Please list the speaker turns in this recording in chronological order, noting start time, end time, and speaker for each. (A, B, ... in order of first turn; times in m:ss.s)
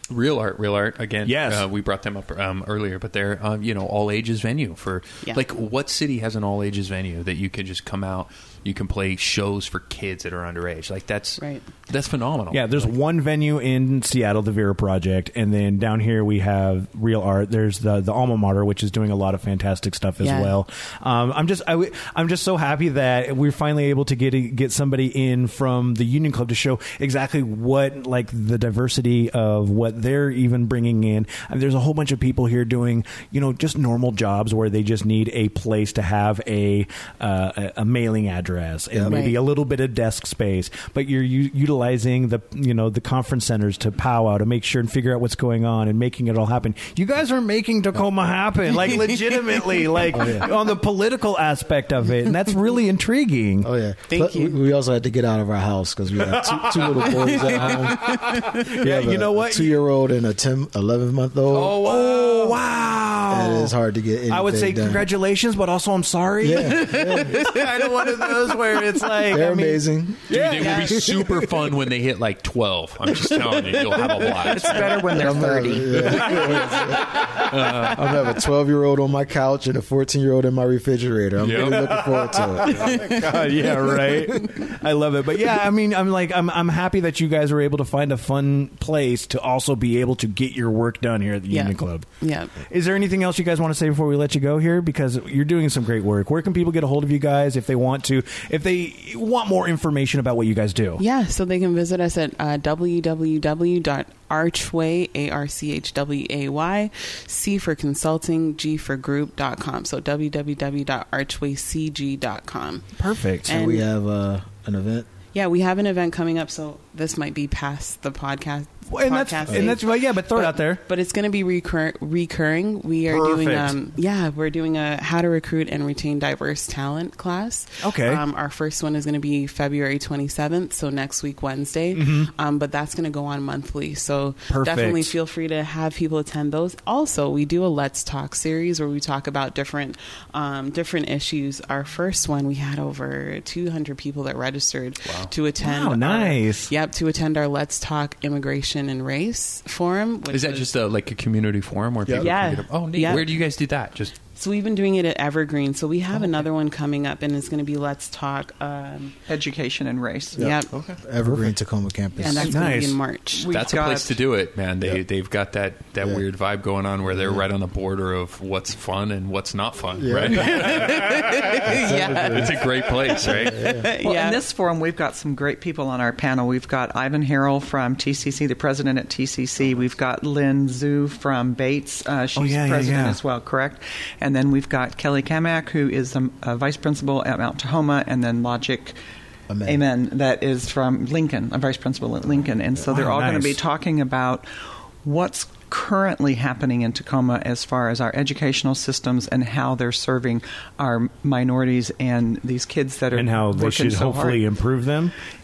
0:00.1-0:12.9 A
0:01.2-0:01.7 B
0:11.4-0:11.7 C
0:12.5-0:53.7 B
0:20.2-0:20.6 C
0:38.9-0:39.2 D
0:39.1-0:39.4 C
0:48.8-0:49.9 C
0:50.1-0:50.5 D
0:53.6-0:58.1 D
0:54.1-0:54.6 C
0:56.3-0:59.8 B
0:57.3-0:58.7 C
0:58.8-1:01.8 D
1:01.5-1:02.6 A
1:01.7-1:03.8 B
1:03.3-1:05.1 D
1:04.3-1:11.4 B
1:06.4-1:07.3 D
1:06.9-1:08.3 C
1:09.3-1:10.3 D
1:10.3-1:15.1 A
1:10.6-1:11.1 C
1:10.8-1:11.2 D
1:14.1-1:16.3 E
1:15.1-1:22.9 D
1:15.9-1:18.1 A
1:16.3-1:17.0 B
1:21.4-1:21.9 A
1:21.6-1:32.1 B
1:22.8-1:24.3 C
1:31.5-1:32.5 C
1:32.7-1:41.0 B
1:41.0-1:52.9 C
1:53.0-1:53.5 B
1:53.5-1:53.9 C
1:53.5-1:55.1 D
1:55.3-2:30.7 C
1:58.9-2:00.8 B
1:59.5-1:59.7 D
2:03.1-2:03.8 B
2:07.8-2:08.2 B
2:12.0-2:12.3 B
2:14.5-2:15.1 B
2:25.0-2:25.3 A
2:25.6-2:26.7 B
2:30.3-2:34.2 A
2:32.1-2:33.4 C
2:34.3-2:39.2 C
2:39.3-2:40.4 E
2:40.3-2:42.4 D
2:40.4-2:40.7 C
2:40.7-2:41.0 A
2:41.2-2:41.5 B
2:42.2-2:43.5 C
2:42.2-2:42.6 E
2:42.4-2:43.0 B
2:43.3-2:44.2 E
2:43.5-2:51.4 A
2:46.0-2:46.3 D
2:47.1-2:47.4 D
2:50.0-2:50.7 D
2:50.3-2:52.7 C
2:51.6-2:52.7 D
2:52.0-2:53.7 A
2:53.2-2:53.9 D
2:53.3-2:54.4 C
2:54.0-3:09.0 E
3:02.4-3:03.2 B
3:09.5-3:09.9 D
3:09.6-3:24.4 E
3:12.9-3:13.6 B
3:23.1-3:25.1 B